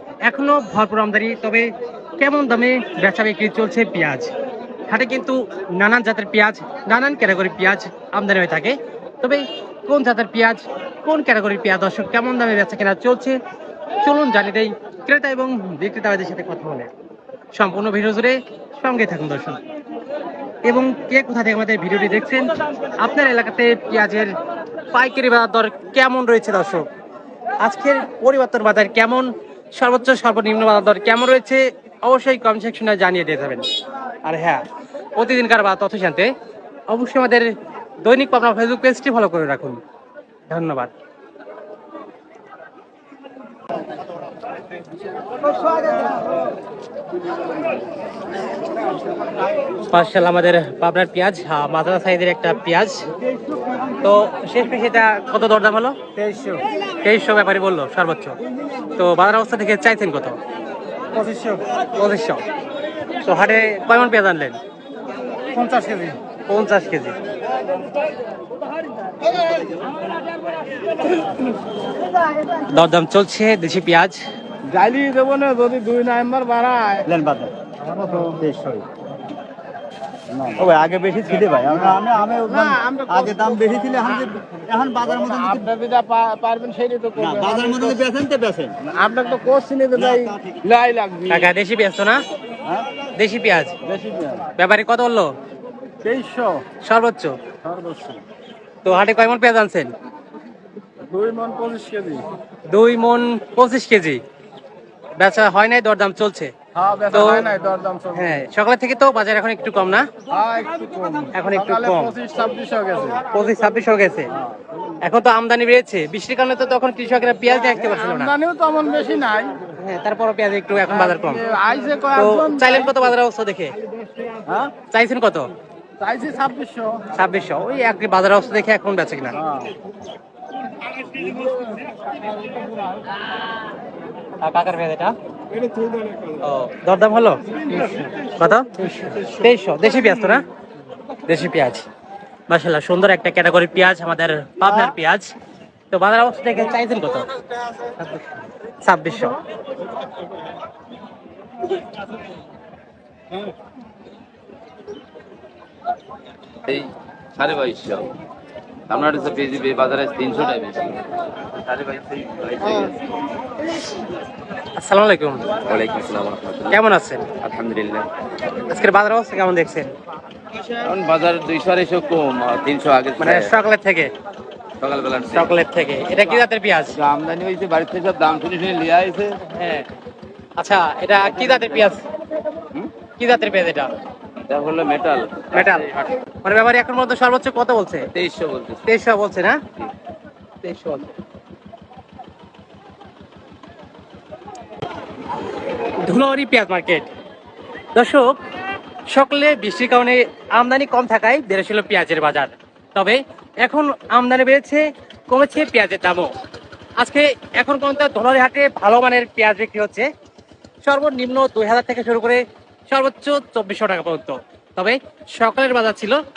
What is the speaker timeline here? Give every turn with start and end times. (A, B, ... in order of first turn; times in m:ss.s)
0:00.2-0:04.3 A
0:04.9-0:13.4 A
0:14.0-0:16.9 A
0:17.5-0:19.6 A
0:20.6-0:24.4 A
0:24.9-0:26.8 A
0:27.6-0:33.7 A
0:34.2-0:34.6 A
0:35.1-0:36.3 A
0:36.9-0:39.8 A
0:40.5-0:40.9 A
0:49.9-0:53.1 A
0:54.0-0:56.1 A
0:56.2-0:56.6 B
0:57.0-0:58.4 A
0:58.9-1:00.4 A
1:01.1-1:01.6 B
1:01.8-1:02.4 A
1:03.2-1:04.6 A
1:05.5-1:06.2 B
1:06.4-1:07.2 A
1:12.5-1:14.2 A
1:14.6-1:17.1 B
1:17.0-1:18.9 C
1:20.3-1:25.7 C
1:21.7-1:24.3 B
1:25.1-1:28.0 B
1:27.2-1:28.8 C
1:28.9-1:31.5 B
1:30.0-1:30.6 C
1:31.3-1:32.2 A
1:32.6-1:32.9 C
1:33.2-1:33.8 A
1:33.8-1:34.5 B
1:34.6-1:35.3 A
1:36.0-1:36.6 B
1:36.8-1:37.4 A
1:37.6-1:38.2 B
1:38.8-1:39.9 A
1:41.1-1:42.2 B
1:42.7-1:44.2 A
1:45.2-1:46.5 A
1:46.7-1:48.4 B
1:47.1-1:47.5 A
1:48.1-1:50.1 A
1:50.3-1:53.2 B
1:51.3-1:52.1 A
1:53.3-1:54.4 A
1:55.0-1:58.3 A
1:57.7-1:59.6 B
1:59.7-2:01.4 A
2:00.9-2:03.0 B
2:02.1-2:03.8 A
2:04.2-2:04.7 B
2:04.9-2:05.5 A
2:06.0-2:07.1 B
2:07.1-2:09.4 A
2:09.4-2:09.7 B
2:11.2-2:11.8 B
2:14.4-2:15.2 A
2:16.4-2:20.4 A
2:21.2-2:21.8 A
2:22.5-2:25.3 A
2:25.9-2:27.3 A
2:27.9-2:29.4 A
2:36.6-2:38.1 D
2:38.9-2:43.0 D
2:44.8-2:45.5 A
2:45.5-2:46.8 D
2:46.7-2:47.3 A
2:47.4-2:48.1 D
2:48.7-2:49.9 A
2:50.6-2:53.5 D
2:53.2-2:54.1 A
2:54.8-2:55.6 D
2:55.3-2:57.0 A
2:56.2-2:59.4 D
2:59.5-2:59.9 A
3:00.6-3:02.0 A
3:03.2-3:03.9 A
3:04.5-3:06.1 D
3:05.5-3:08.1 A
3:08.1-3:08.8 D
3:08.8-3:09.6 A
3:10.6-3:11.1 A
3:16.0-3:17.1 A
3:17.9-3:18.4 A
3:19.1-3:26.3 A
3:27.0-3:30.1 A
3:30.8-3:36.2 A